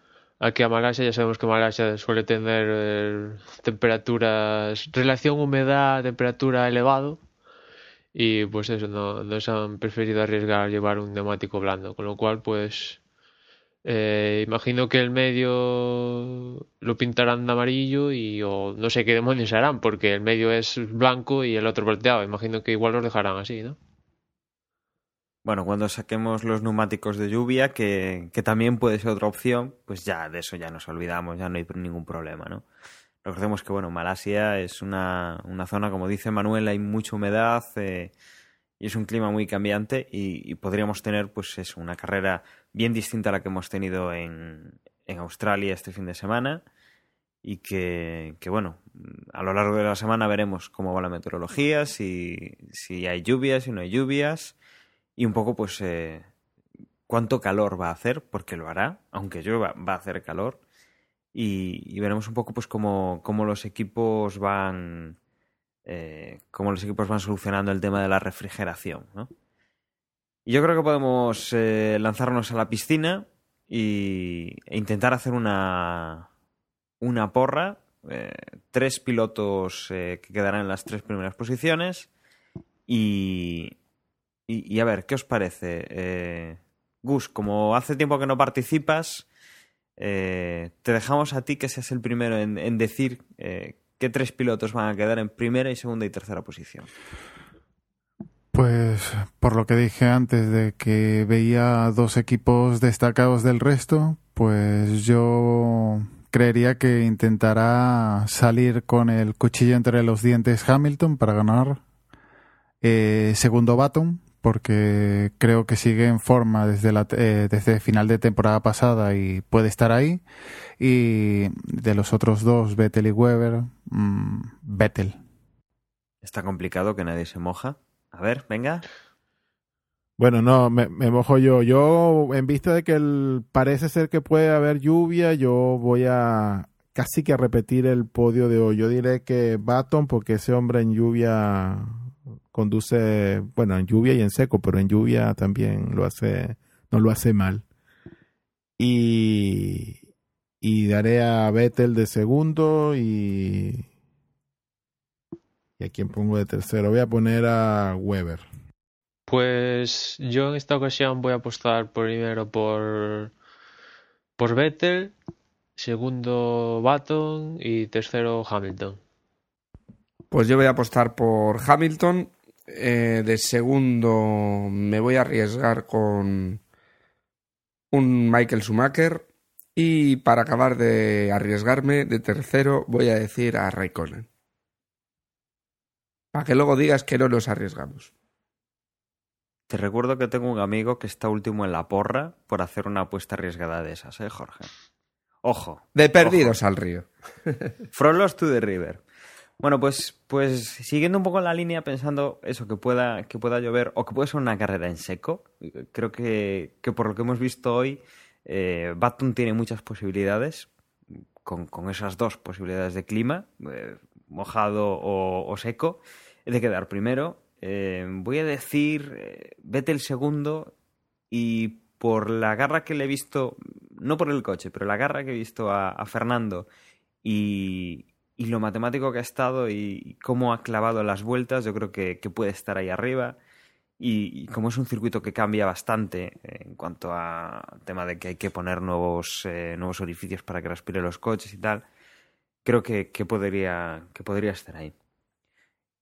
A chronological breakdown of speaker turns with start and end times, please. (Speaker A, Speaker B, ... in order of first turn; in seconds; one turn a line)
Speaker A: 0.4-7.2
Speaker A: 8.1-13.0
Speaker A: 13.8-23.8
Speaker B: 25.4-32.6
Speaker B: 33.2-38.1
Speaker B: 38.8-46.6
Speaker B: 47.4-54.5
Speaker B: 55.2-56.3
Speaker B: 57.1-60.6
Speaker B: 61.3-65.2
Speaker B: 65.9-69.3
Speaker B: 70.5-76.3
Speaker B: 77.0-82.1
Speaker B: 82.9-83.8
Speaker B: 84.5-89.3
Speaker B: 90.0-96.9
Speaker C: 98.5-111.8
Speaker C: 112.8-120.2
Speaker C: 120.8-125.2
Speaker B: 126.2-128.8
Speaker D: 130.2-147.6
Speaker D: 148.8-150.0
Speaker D: 150.6-153.9
Speaker D: 155.8-158.4
Speaker A: 159.3-163.3
Speaker A: 164.4-165.1
Speaker A: 165.8-169.0
Speaker E: 170.3-176.6
Speaker E: 177.9-179.2
Speaker E: 179.8-184.3
Speaker E: 186.3-188.1
Speaker B: 189.7-194.7
Speaker B: 195.4-196.6
Speaker E: 195.9-197.1
Speaker B: 197.9-199.0
Speaker B: 199.6-210.7
Speaker B: 211.4-220.7
Speaker B: 221.3-226.7
Speaker B: 227.2-233.4
Speaker B: 234.0-241.8
Speaker B: 242.7-244.9